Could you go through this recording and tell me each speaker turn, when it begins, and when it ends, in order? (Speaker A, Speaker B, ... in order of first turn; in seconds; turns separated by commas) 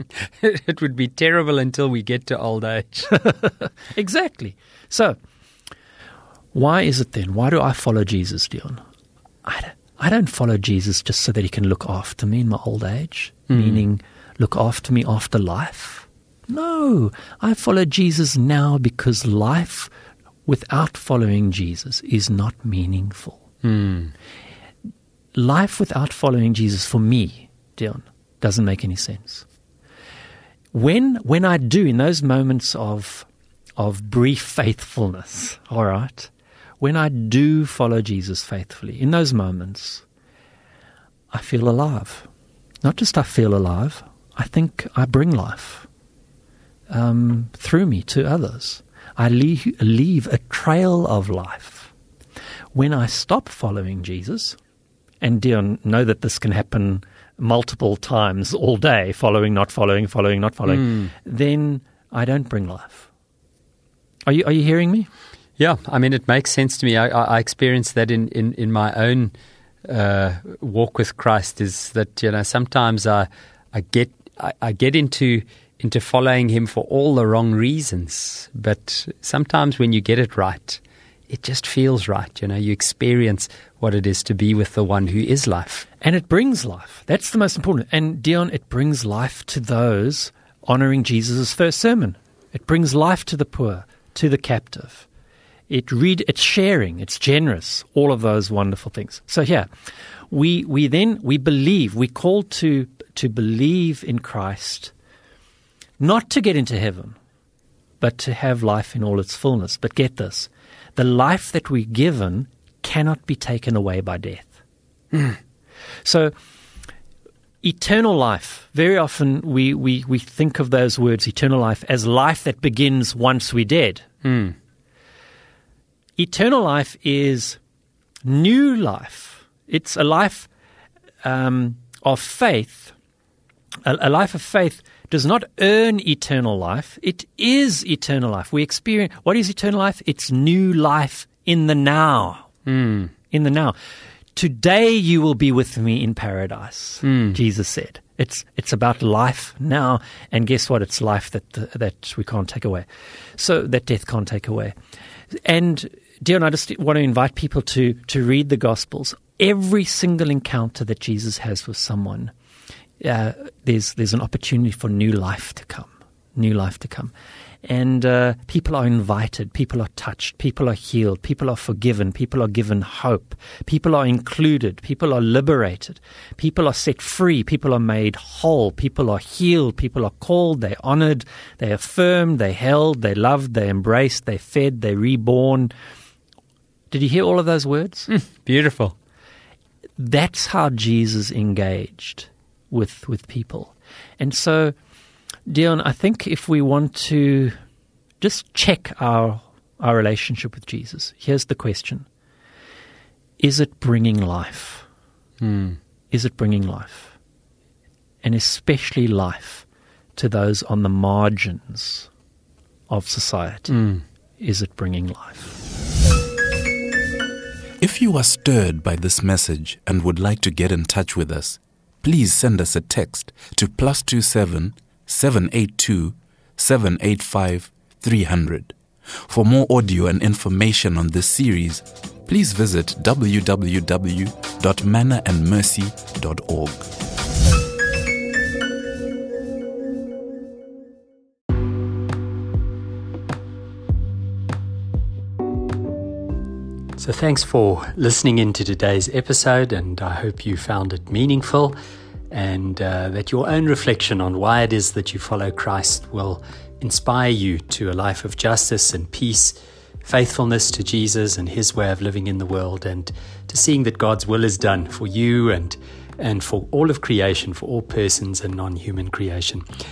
Speaker A: 0.4-3.2, Speaker B: 3.2-5.2, Speaker B: 6.5-8.8, Speaker B: 9.4-19.9, Speaker A: 13.5-13.8, Speaker B: 20.4-23.4, Speaker A: 23.6-24.1, Speaker B: 25.3-29.4, Speaker B: 30.7-40.0, Speaker B: 41.3-42.3, Speaker B: 42.8-45.9, Speaker B: 46.9-51.9, Speaker B: 52.7-54.6, Speaker B: 55.2-63.1, Speaker A: 60.7-61.1, Speaker B: 64.2-65.1, Speaker A: 65.6-69.3, Speaker A: 69.8-85.8, Speaker B: 86.0-95.0, Speaker B: 95.7-99.7, Speaker B: 100.3-104.9, Speaker B: 106.0-107.2, Speaker B: 108.0-114.5, Speaker B: 116.0-116.3, Speaker B: 117.6-124.0, Speaker A: 124.2-124.5, Speaker B: 126.2-127.6, Speaker B: 128.2-130.5, Speaker B: 131.2-132.9, Speaker B: 133.8-142.5, Speaker A: 142.7-143.1, Speaker B: 143.3-143.7, Speaker B: 144.3-154.7, Speaker A: 147.0-147.4, Speaker B: 155.3-162.3, Speaker B: 163.0-167.1, Speaker B: 167.6-185.7, Speaker B: 186.9-188.1, Speaker A: 188.1-188.9, Speaker B: 190.0-194.7, Speaker B: 195.5-197.5, Speaker B: 198.2-202.1, Speaker B: 203.4-204.8, Speaker A: 205.4-205.8, Speaker B: 206.1-207.1, Speaker B: 208.2-209.6, Speaker B: 210.2-212.1, Speaker B: 212.9-213.8, Speaker A: 213.7-214.0, Speaker B: 214.4-215.6, Speaker C: 217.8-228.7, Speaker C: 229.3-236.9, Speaker A: 247.0-251.8, Speaker A: 252.3-269.6